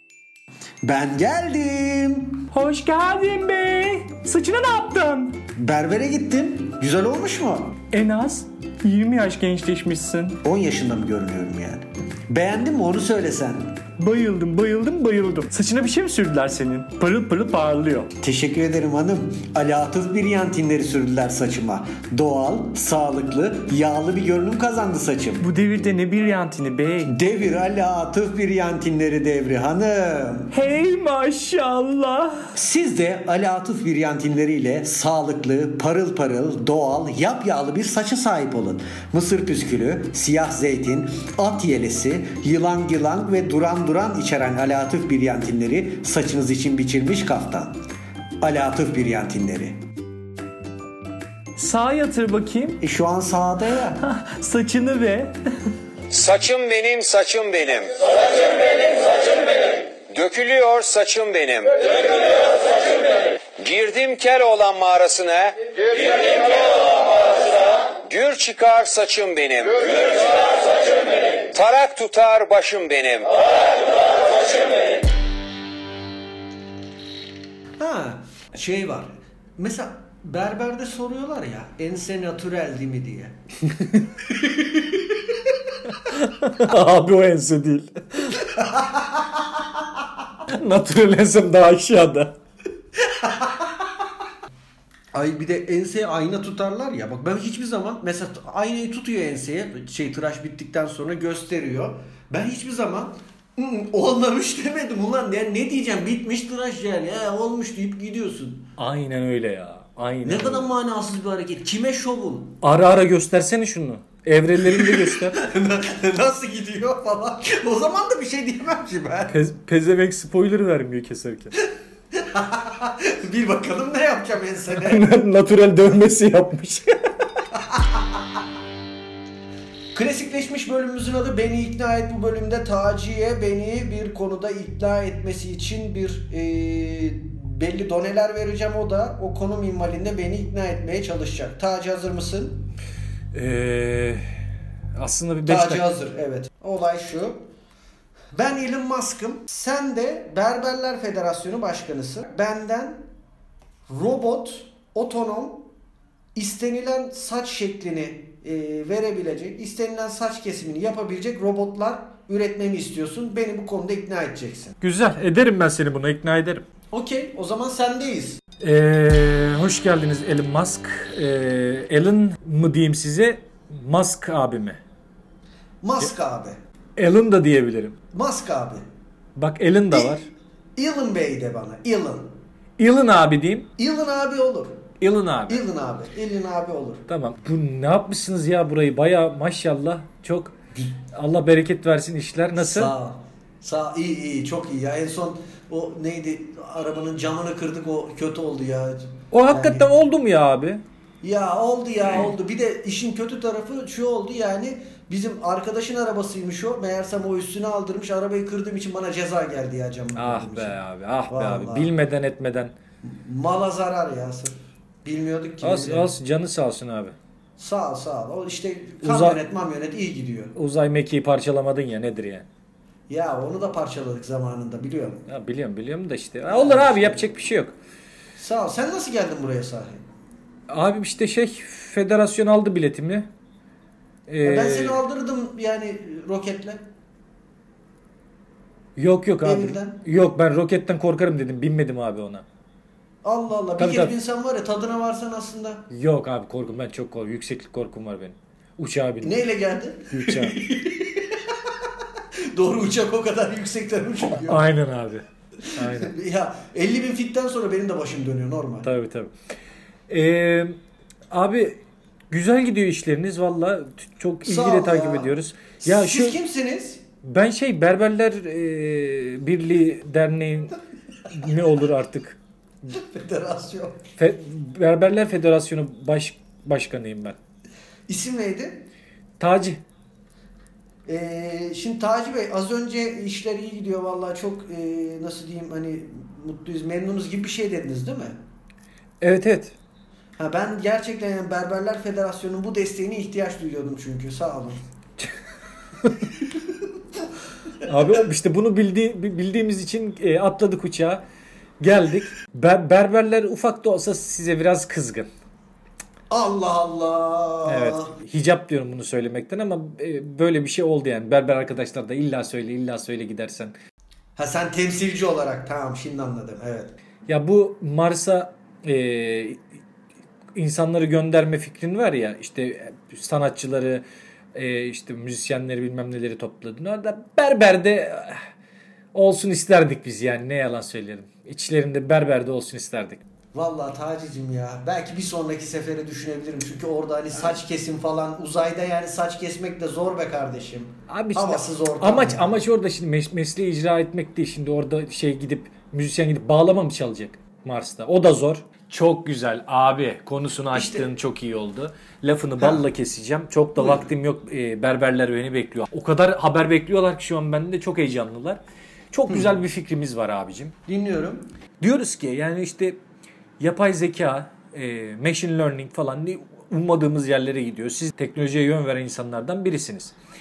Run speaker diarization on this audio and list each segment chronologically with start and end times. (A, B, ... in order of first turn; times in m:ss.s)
0:00.8-0:02.5 A
0:02.5-0:05.4 B
0:05.5-0:07.8 A
0:07.9-0:10.4 B
0:10.4-0:13.9 A
0:14.0-0:18.1 B
0:18.2-0:25.4 A
0:25.4-0:27.2 B
0:27.0-0:30.5 A
0:30.5-0:32.5 B
0:32.5-0:47.8 A
0:48.4-0:49.8 A
0:51.6-0:52.8 B
0:52.8-0:54.0 A
0:54.0-0:55.4 B
0:56.1-1:13.4 C
1:17.8-1:25.7 A
1:26.0-1:28.4 B
1:28.4-1:29.6 A
1:30.5-1:32.4 B
1:33.0-1:33.8 A
1:35.1-1:48.7 A
1:48.8-1:50.7 B
1:50.2-1:52.6 A
1:52.6-1:55.4 B
1:54.6-1:59.4 A
1:59.3-2:01.5 B
2:02.1-2:05.1 A
2:04.7-2:07.2 B
2:07.5-2:08.2 A
2:09.9-2:22.7 A
2:23.3-2:24.2 B
2:24.9-2:25.8 B
2:25.4-2:27.5 A
2:28.3-2:33.1 A
2:33.9-2:35.7 A
2:36.3-2:44.8 A
2:44.8-2:46.6 B
2:46.9-2:48.4 A
2:48.6-2:54.8 B
2:55.8-2:56.6 A
2:57.0-2:58.0 B
2:58.1-2:58.8 A
2:59.4-3:00.3 B
2:59.9-3:00.2 A
3:00.8-3:02.4 A
3:02.8-3:03.7 B
3:03.8-3:04.9 A
3:05.0-3:05.6 B
3:05.5-3:07.0 A
3:07.1-3:10.6 B
3:10.7-3:11.0 A
3:11.1-3:12.9 B
3:12.5-3:19.9 A
3:19.3-3:20.8 B
3:21.2-3:30.8 A
3:30.2-3:32.7 B
3:31.3-3:31.9 A
3:33.0-3:36.1 A
3:35.6-3:37.2 B
3:37.6-3:40.5 A
3:39.0-3:39.4 B
3:40.5-3:42.5 B
3:43.1-3:45.3 A
3:45.3-3:47.8 B
3:46.5-3:47.3 A
3:48.4-3:50.0 A
3:50.7-3:53.3 B
3:54.3-3:55.0 B
3:54.4-3:56.8 A
3:59.0-4:02.4 B
3:59.4-4:00.0 A
4:03.2-4:05.9 A
4:03.8-4:04.1 B
4:05.9-4:09.4 B
4:09.2-4:11.7 A
4:10.1-4:10.6 B
4:12.5-4:14.6 A
4:14.4-4:15.2 B
4:15.6-4:18.9 A
4:15.8-4:16.1 B
4:18.8-4:19.3 B
4:20.1-4:20.8 B
4:21.3-4:26.4 B
4:24.4-4:27.0 A
4:27.2-4:30.8 B
4:31.3-4:32.4 B
4:32.9-4:34.0 A
4:34.2-4:37.4 B
4:38.1-4:38.9 A
4:39.4-4:39.8 B
4:41.0-4:48.4 A
4:49.2-4:49.8 B
4:50.4-4:54.8 A
4:57.8-5:01.2 B
5:01.8-5:05.3 B
5:06.3-5:08.1 A
5:07.6-5:13.7 B
5:14.4-5:17.0 A
5:17.3-5:19.6 B
5:20.5-5:28.4 B
5:29.1-5:33.2 B
5:33.5-5:42.6 A
5:41.1-6:00.7 B
5:50.7-5:51.1 A
5:52.6-5:52.8 A
5:53.7-5:54.1 A
5:59.3-5:59.5 A
6:00.8-6:01.5 A
6:01.8-6:03.0 B
6:03.6-6:10.1 B